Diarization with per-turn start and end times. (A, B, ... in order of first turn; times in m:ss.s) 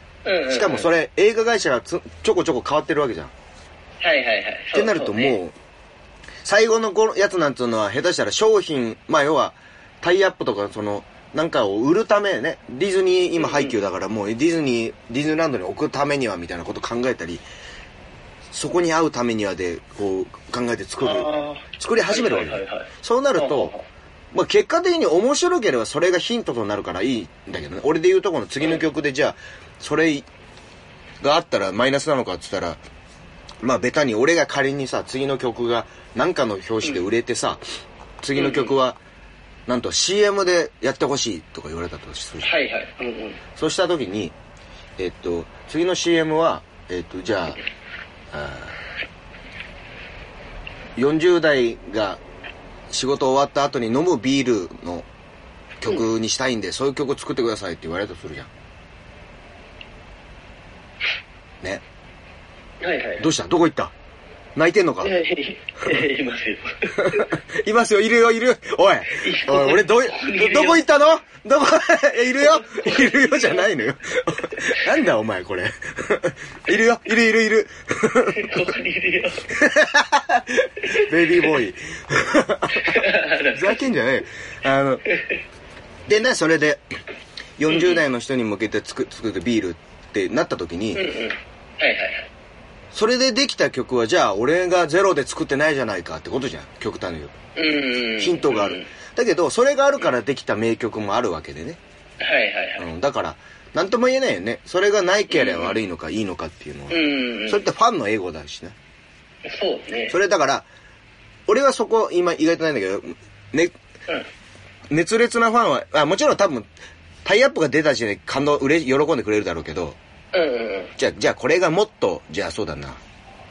0:00.2-0:00.9 A
0:00.5-0:03.3 B
0:04.0-0:05.4 A
0:04.7-0:05.6 B
0:06.4-0:17.4 B
0:13.4-0:13.8 A
0:18.5-0:23.7 B
0:21.0-0:23.9 A
0:24.3-0:30.3 B
0:31.2-0:32.8 B
0:33.6-0:37.6 B
0:38.2-0:39.0 B
0:38.4-0:38.7 A
0:39.7-0:42.5 B
0:42.4-0:43.4 A
0:43.6-0:44.4 B
0:45.0-0:47.6 B
0:48.3-0:48.7 B
0:51.0-0:52.2 B
0:52.9-0:55.1 B
0:55.8-0:58.5 B
1:02.8-1:03.3 A
1:03.2-1:03.9 B
1:04.6-1:05.1 B
1:05.0-1:07.4 A
1:07.0-1:18.6 B
1:09.2-1:10.8 A
1:12.4-1:13.6 A
1:18.3-1:19.5 A
1:19.5-1:25.0 B
1:22.7-1:23.8 A
1:25.1-1:25.4 A
1:26.1-1:26.8 B
1:27.6-1:31.1 B
1:27.7-1:28.0 A
1:30.9-1:32.3 A
1:32.9-1:37.4 B
1:37.6-1:38.9 A
1:38.1-1:41.8 B
1:42.2-1:42.9 A
1:42.8-1:48.8 B
1:45.3-1:45.8 A
1:46.9-1:47.6 A
1:49.5-1:50.2 A
1:50.1-1:50.7 B
1:51.5-1:53.8 B
1:54.9-1:56.7 B
1:57.2-2:00.0 B
2:00.3-2:00.9 A
2:01.0-2:03.0 B